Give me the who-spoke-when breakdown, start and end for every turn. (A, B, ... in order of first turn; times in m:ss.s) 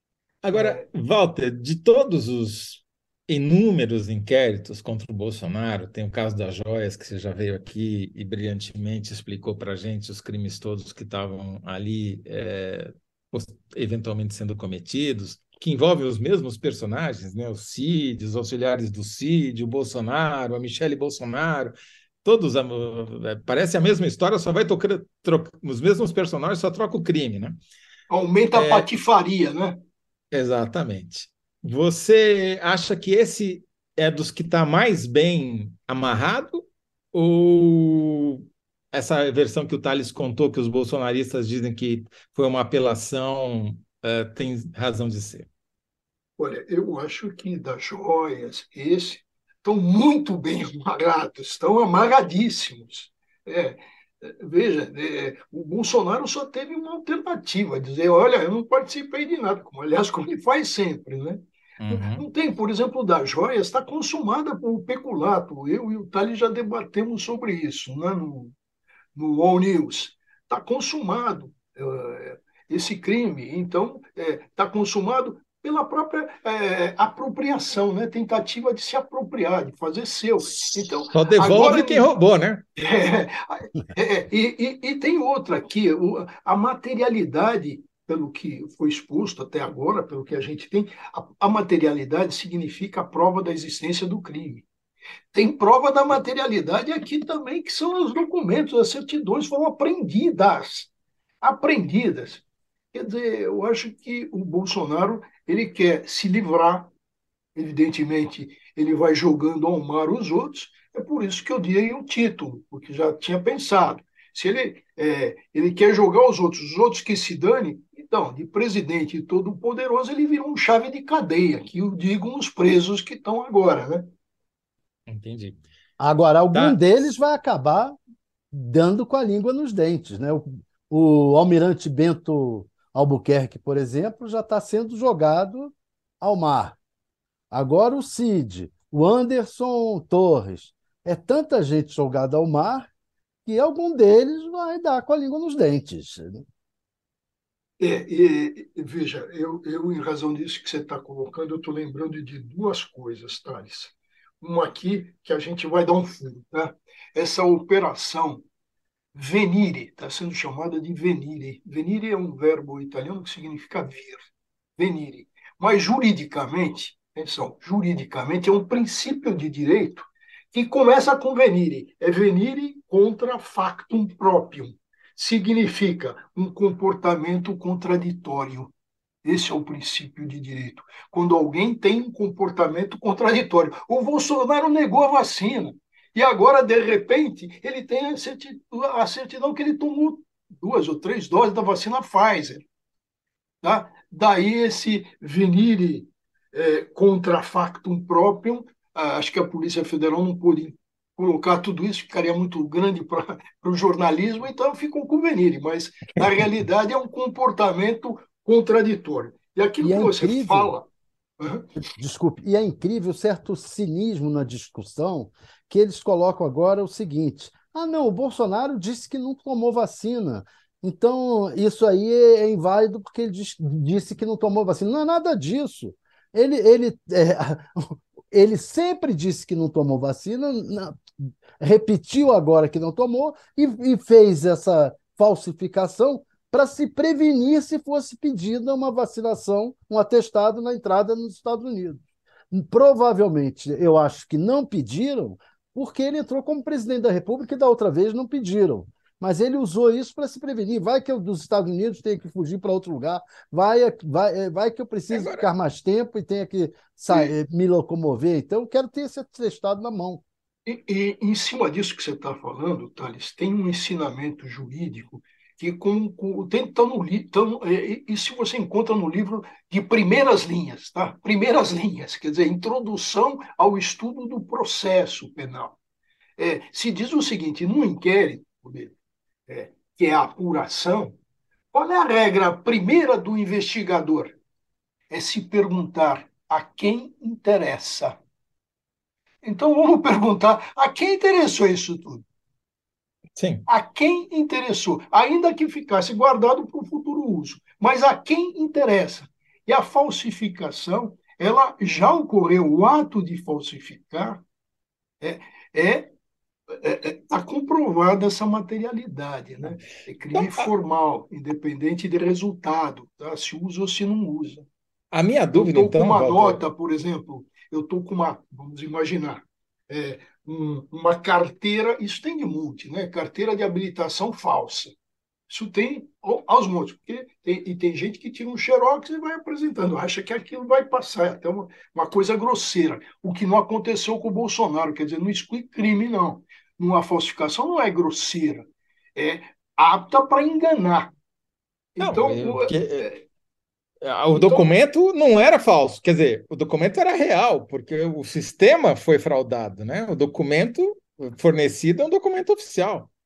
0:00.4-0:27.6 A
0:00.5-0:00.8 B
0:28.1-0:29.8 B
0:28.5-0:28.9 A
0:30.3-0:45.5 A
0:46.4-1:08.5 B
1:01.8-1:02.2 A
1:09.2-1:22.0 B
1:21.1-1:22.6 A
1:22.8-1:34.7 B
1:35.3-1:40.9 B
1:41.4-1:42.4 B
1:42.9-1:46.9 B
1:47.5-2:04.1 B
2:05.1-2:05.6 A
2:06.0-2:08.0 C
2:06.5-2:07.1 A
2:08.5-2:16.8 C
2:17.5-2:22.9 C
2:23.4-2:26.4 C
2:27.8-2:38.4 B
2:39.1-2:58.7 B
2:59.2-3:12.6 B
3:13.6-3:30.9 B
3:29.8-3:30.7 C
3:31.4-3:31.7 B
3:32.0-4:20.2 C
4:15.1-4:15.5 A
4:20.6-4:35.8 B
4:36.4-4:38.9 B
4:39.5-4:41.2 B
4:41.7-4:44.4 B
4:45.1-4:48.2 B
4:49.4-4:52.2 B
4:53.4-4:53.6 A
4:53.7-5:04.4 B
5:05.2-5:06.1 B
5:06.7-5:14.7 B
5:10.3-5:10.7 A
5:15.1-5:16.6 A
5:15.5-5:24.9 B
5:25.5-5:41.1 B
5:42.0-5:43.2 B
5:42.0-5:43.1 A
5:44.0-5:53.1 A
5:44.3-5:44.7 B